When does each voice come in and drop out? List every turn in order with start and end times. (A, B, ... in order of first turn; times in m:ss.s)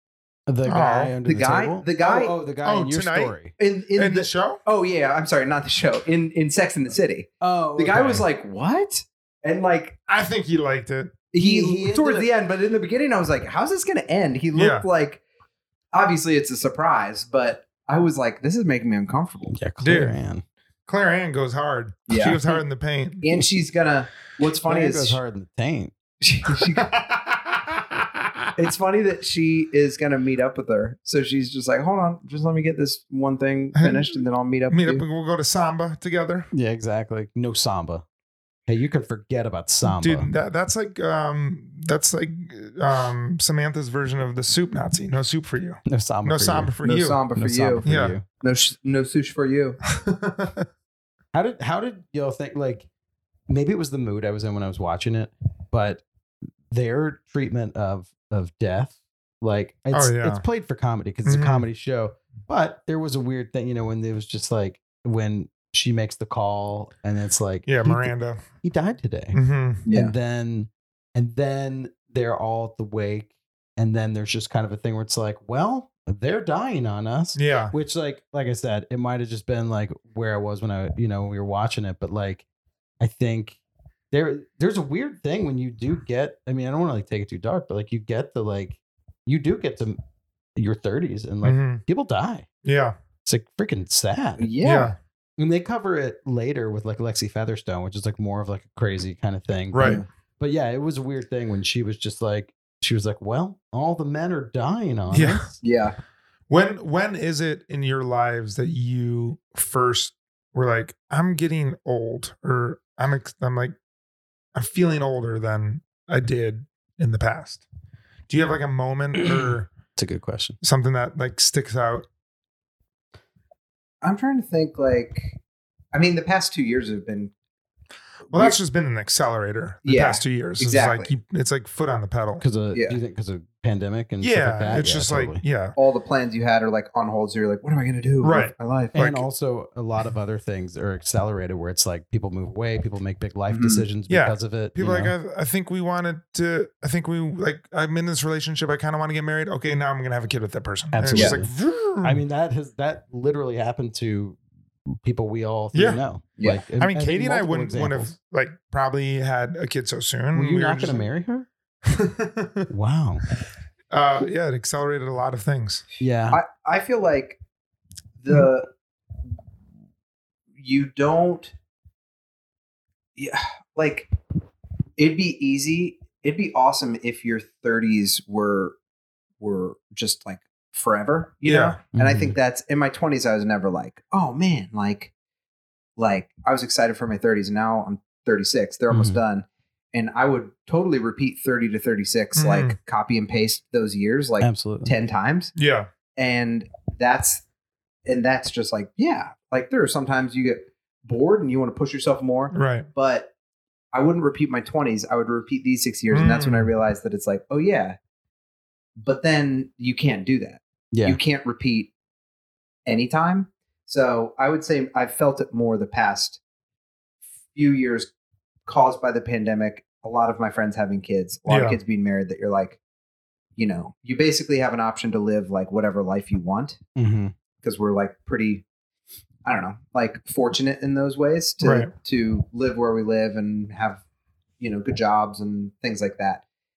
0:00.5-0:03.5 A
0:00.7-0:01.2 B
0:01.2-0:02.4 C
0:02.6-0:03.4 B
0:03.6-0:10.0 C
0:04.0-0:04.6 B
0:07.4-0:08.2 A
0:10.1-0:11.2 B
0:11.3-0:15.2 C
0:11.4-0:12.3 A
0:14.5-0:14.9 B
0:15.9-0:19.6 C
0:19.5-0:20.4 A
0:19.8-0:20.2 B
0:20.9-0:23.2 B
0:22.1-0:22.6 C
0:23.2-0:25.2 C
0:24.7-0:25.9 A
0:26.2-0:26.9 C
0:26.8-0:28.5 B
0:28.6-0:35.0 C
0:33.8-0:34.1 B
0:34.7-0:36.5 B
0:36.5-0:38.0 A
0:38.7-0:40.3 A
0:39.9-0:47.2 B
0:45.9-0:46.7 A
0:46.8-0:49.8 C
0:47.4-0:48.2 A
0:47.8-0:48.2 B
0:49.9-0:50.7 B
0:51.3-0:52.9 A
0:53.5-0:56.0 A
0:56.7-1:22.4 A
0:59.9-1:00.4 B
1:01.3-1:01.7 B
1:07.7-1:08.4 B
1:09.3-1:09.8 B
1:09.9-1:10.1 C
1:17.4-1:17.7 B
1:23.0-1:23.6 A
1:24.1-1:30.0 A
1:30.6-1:32.5 A
1:31.4-1:31.8 B
1:32.6-1:33.0 B
1:33.2-1:34.5 A
1:34.4-1:34.9 C
1:34.6-1:35.0 B
1:35.4-1:45.6 A
1:39.7-1:40.0 B
1:39.8-1:40.0 C
1:45.1-1:45.5 B
1:45.6-1:46.0 C
1:46.5-1:53.8 B
1:54.6-1:57.6 B
1:58.3-1:59.7 B
2:00.0-2:00.6 A
2:00.6-2:02.1 B
2:04.0-2:05.4 C
2:05.9-2:07.3 C
2:08.3-2:08.6 C
2:08.3-2:12.4 B
2:09.8-2:11.1 C
2:12.4-2:15.4 A
2:12.7-2:13.0 C
2:14.2-2:15.8 B
2:15.8-2:19.0 C
2:18.2-2:19.2 B
2:18.9-2:25.1 A
2:23.5-2:23.8 C
2:24.1-2:32.2 B
2:30.9-2:38.1 A
2:31.1-2:31.4 C
2:35.7-2:36.0 B
2:36.8-2:41.1 B
2:40.4-2:41.5 A
2:41.9-2:42.7 B
2:42.7-2:43.2 A
2:43.9-2:45.8 B
2:46.0-2:46.4 A
2:46.3-2:47.4 C
2:48.2-2:48.7 C
2:50.6-2:51.5 C
2:53.2-2:54.1 C
2:55.0-2:58.8 C
2:59.4-3:05.1 C
3:01.5-3:01.8 B
3:01.9-3:02.4 A
3:06.0-3:15.5 C
3:08.9-3:09.2 A
3:12.4-3:12.8 B
3:14.4-3:14.9 A
3:15.6-3:15.9 B
3:16.2-3:17.4 C
3:18.1-3:23.3 C
3:22.5-3:22.9 B
3:23.9-3:28.0 C
3:26.1-3:26.7 B
3:29.0-3:31.9 C
3:30.9-3:31.2 A
3:32.9-3:36.4 C
3:37.5-3:38.1 C
3:38.7-3:42.8 C
3:41.5-3:41.8 B
3:43.6-3:46.8 C
3:47.0-3:47.3 A
3:47.6-3:48.6 C
3:49.4-3:54.0 C
3:51.6-3:51.9 B
3:54.6-3:56.4 C